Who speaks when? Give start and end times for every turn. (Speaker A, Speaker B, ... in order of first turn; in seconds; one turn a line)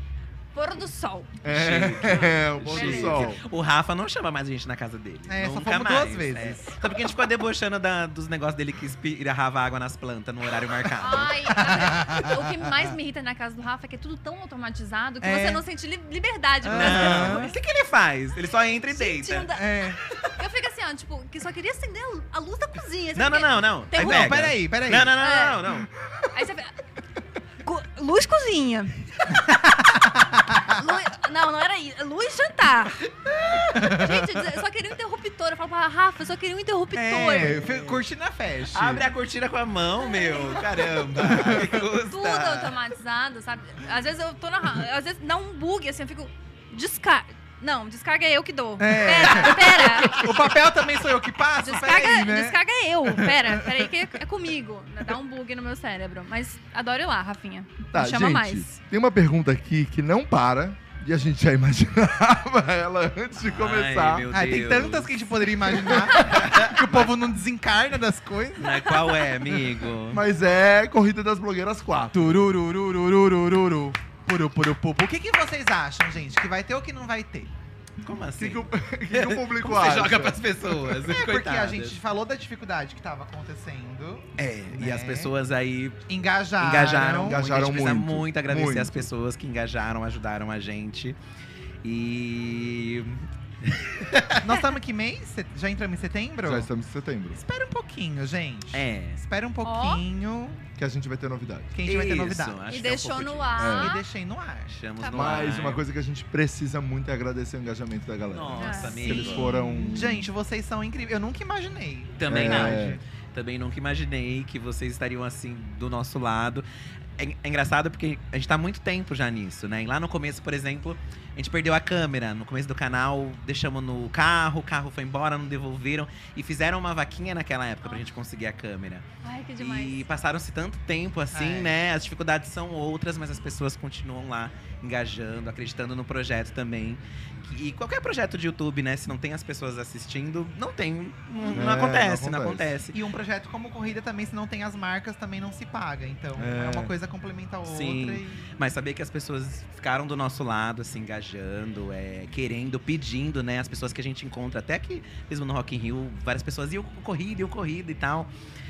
Speaker A: 0.5-1.3
Speaker B: 1.4-3.4
Speaker C: 1.5-11.7
Speaker A: 2.7-3.3
Speaker D: 5.3-6.7
Speaker A: 11.0-17.5
Speaker D: 11.6-12.5
Speaker D: 15.2-15.6
Speaker D: 16.6-17.6
Speaker C: 16.7-19.5
Speaker A: 18.9-24.4
Speaker D: 19.5-20.0
Speaker C: 23.1-25.9
Speaker D: 23.9-25.1
Speaker A: 25.1-25.6
Speaker A: 26.3-26.7
Speaker A: 27.6-29.5
Speaker D: 29.5-30.7
Speaker A: 30.7-37.6
Speaker D: 33.6-34.2
Speaker D: 36.9-39.1
Speaker C: 37.4-38.0
Speaker C: 38.7-42.8
Speaker A: 40.0-41.2
Speaker D: 41.2-41.7
Speaker A: 42.1-50.5
Speaker D: 48.8-53.9
Speaker A: 51.6-58.7
Speaker B: 57.9-64.2
Speaker C: 63.3-65.2
Speaker D: 64.3-68.9
Speaker B: 65.8-66.2
Speaker C: 66.1-67.1
Speaker C: 68.6-70.2
Speaker A: 68.9-69.2
Speaker B: 70.1-72.5
Speaker D: 72.1-77.5
Speaker C: 78.0-82.0
Speaker B: 78.4-80.9
Speaker D: 81.0-85.3
Speaker C: 84.4-86.0
Speaker D: 86.1-87.4
Speaker C: 86.6-91.2
Speaker B: 87.2-89.1
Speaker C: 91.8-94.5
Speaker D: 94.4-96.7
Speaker B: 96.4-97.4
Speaker D: 97.3-100.6
Speaker C: 98.7-99.2
Speaker A: 99.6-100.0
Speaker B: 100.8-101.7
Speaker D: 101.7-102.7
Speaker C: 101.8-103.8
Speaker A: 102.7-104.0
Speaker B: 103.6-103.9
Speaker D: 103.7-104.7
Speaker C: 104.7-105.8
Speaker A: 105.0-105.5
Speaker B: 105.1-110.3
Speaker C: 108.3-109.5
Speaker A: 108.6-109.4
Speaker D: 109.0-113.0
Speaker C: 112.2-116.6
Speaker B: 112.3-113.0
Speaker C: 117.2-129.1
Speaker A: 129.2-130.1
Speaker C: 129.6-143.0
Speaker D: 131.3-131.8
Speaker D: 141.4-141.8
Speaker B: 141.5-142.7
Speaker D: 142.9-148.5
Speaker B: 146.3-146.9
Speaker C: 147.7-158.3